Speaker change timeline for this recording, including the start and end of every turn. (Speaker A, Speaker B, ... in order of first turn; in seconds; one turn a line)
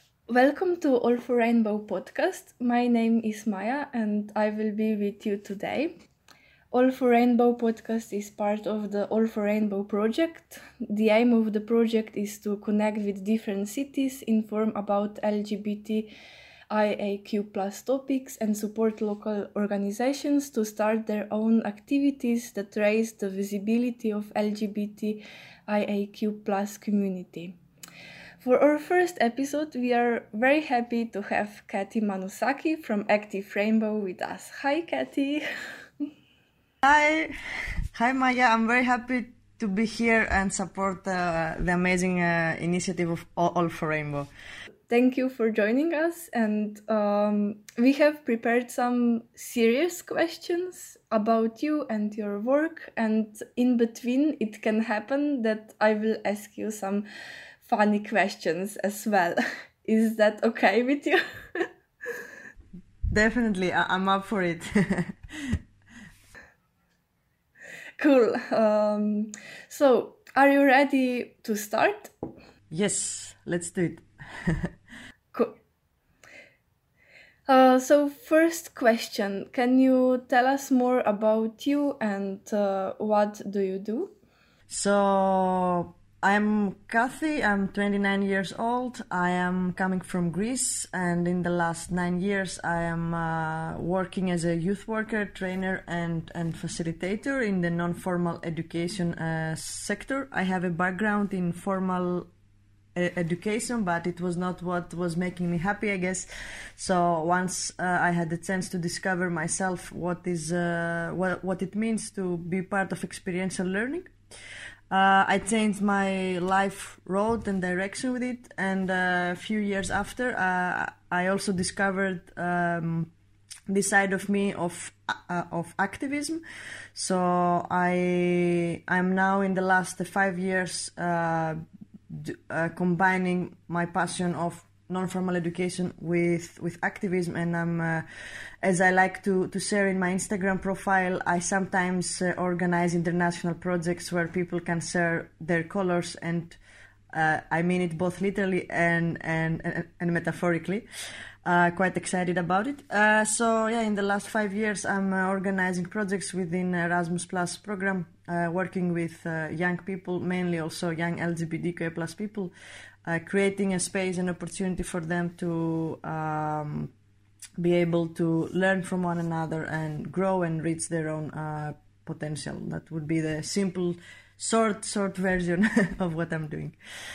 Speaker A: 0.3-5.9
Speaker A: 6.7-16.1
Speaker A: 16.7-27.6
Speaker A: 28.4-35.4
Speaker B: 36.8-37.3
Speaker B: 38.0-44.3
Speaker A: 44.9-57.0
Speaker A: 57.6-61.7
Speaker B: 63.1-65.6
Speaker A: 68.0-72.1
Speaker B: 72.7-74.7
Speaker A: 77.5-84.1
Speaker B: 84.7-102.3
Speaker B: 103.0-114.1
Speaker B: 114.9-123.1
Speaker B: 123.7-126.4
Speaker B: 127.0-138.0
Speaker B: 138.6-146.6
Speaker B: 147.1-150.9
Speaker B: 151.4-162.5
Speaker B: 163.1-166.9
Speaker B: 167.6-176.8